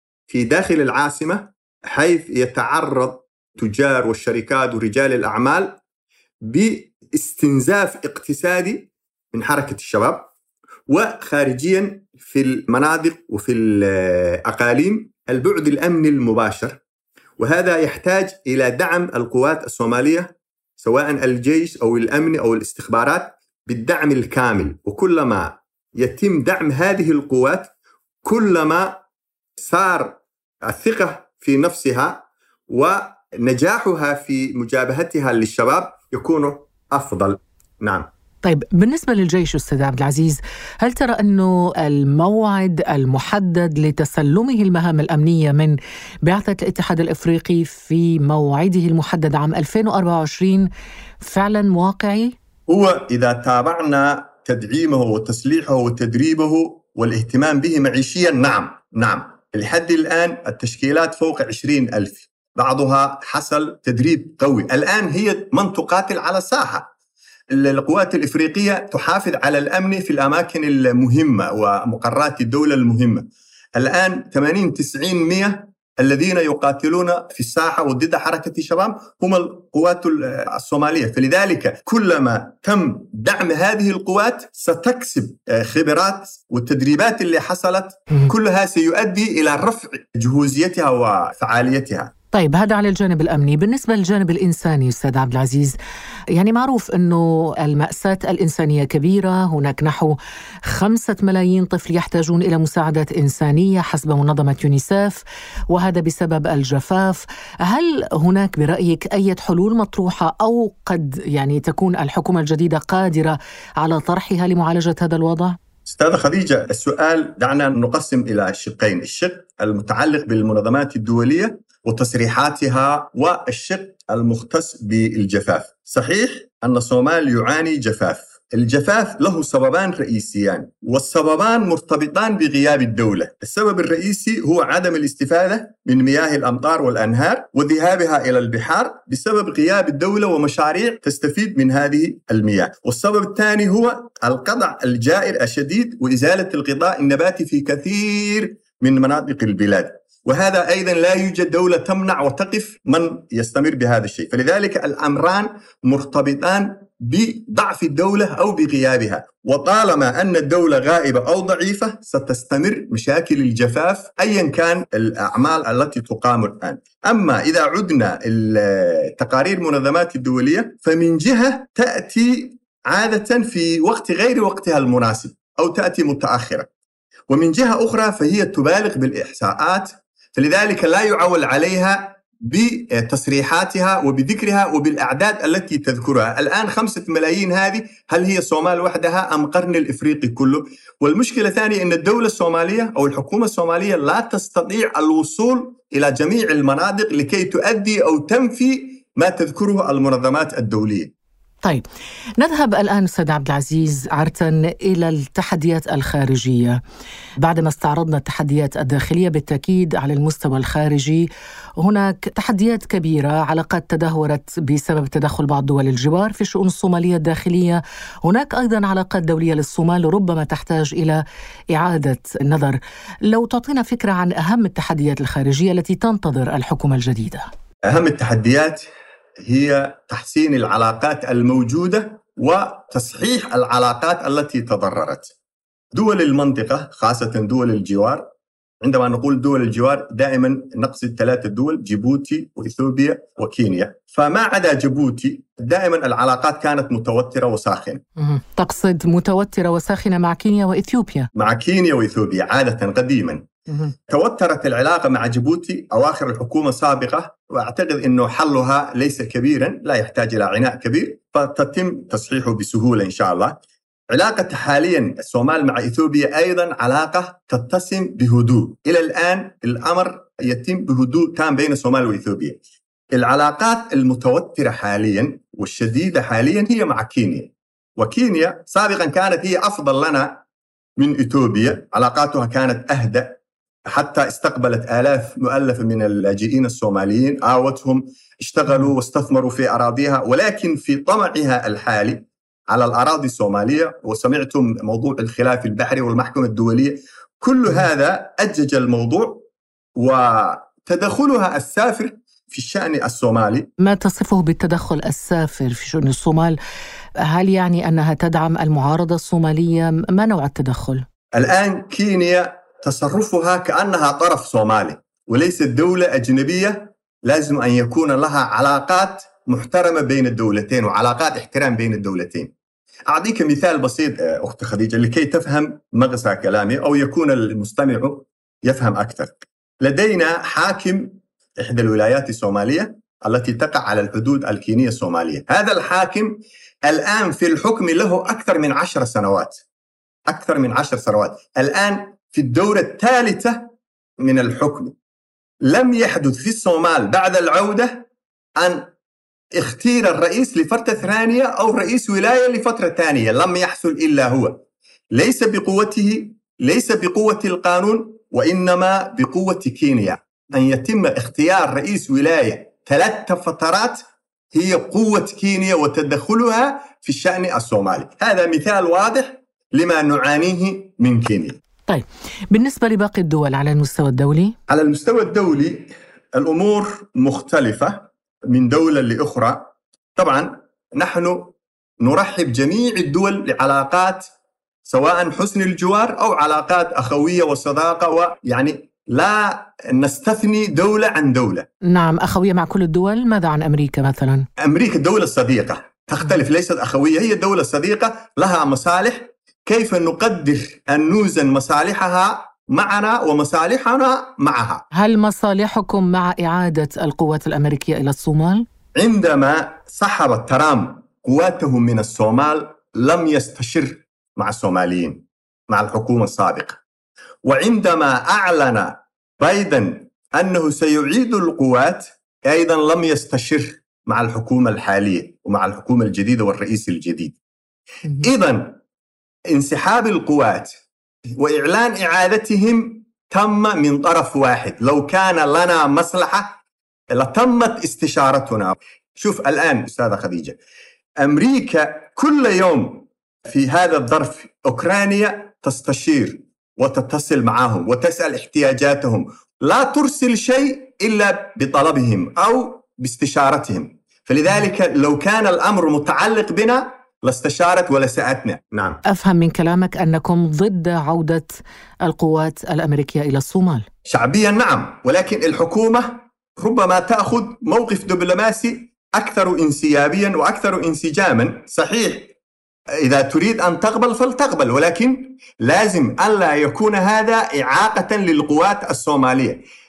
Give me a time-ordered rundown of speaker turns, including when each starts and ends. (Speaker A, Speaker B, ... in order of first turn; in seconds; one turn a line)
Speaker A: 0.3-5.8
Speaker A: 6.4-10.3
Speaker A: 10.9-16.8
Speaker A: 17.4-27.7
Speaker A: 28.2-29.0
Speaker A: 29.6-38.1
Speaker B: 38.4-50.7
Speaker B: 51.2-52.3
Speaker A: 52.7-66.9
Speaker A: 67.5-92.1
Speaker B: 92.3-95.7
Speaker B: 96.3-115.6
Speaker A: 115.8-176.7
Speaker A: 177.3-201.1
Speaker B: 202.4-206.8
Speaker B: 207.4-211.3
Speaker B: 211.8-227.4
Speaker A: 227.8-228.8
Speaker A: 229.4-235.3
Speaker A: 235.9-238.3
Speaker A: 238.8-248.0
Speaker B: 248.2-251.3
Speaker A: 251.3-263.6
Speaker A: 264.1-272.6
Speaker A: 273.1-280.4
Speaker A: 281.0-299.4
Speaker A: 300.0-303.7
Speaker B: 303.8-306.6
Speaker B: 307.3-311.0
Speaker A: 311.3-322.5
Speaker A: 323.1-339.6
Speaker A: 340.3-343.7
Speaker A: 344.2-344.9
Speaker A: 345.6-348.1
Speaker A: 348.6-348.9
Speaker A: 349.6-364.0
Speaker A: 364.5-371.6
Speaker B: 371.9-374.5
Speaker A: 374.7-384.3
Speaker A: 384.8-391.7
Speaker B: 391.9-394.4
Speaker A: 394.6-404.8
Speaker B: 404.9-408.6
Speaker A: 409.0-416.8
Speaker A: 417.4-427.4
Speaker A: 428.1-428.8
Speaker A: 429.5-430.7
Speaker A: 431.4-436.6
Speaker A: 437.1-440.6
Speaker A: 441.2-459.0
Speaker B: 459.1-463.8
Speaker A: 464.1-472.3
Speaker A: 473.0-479.6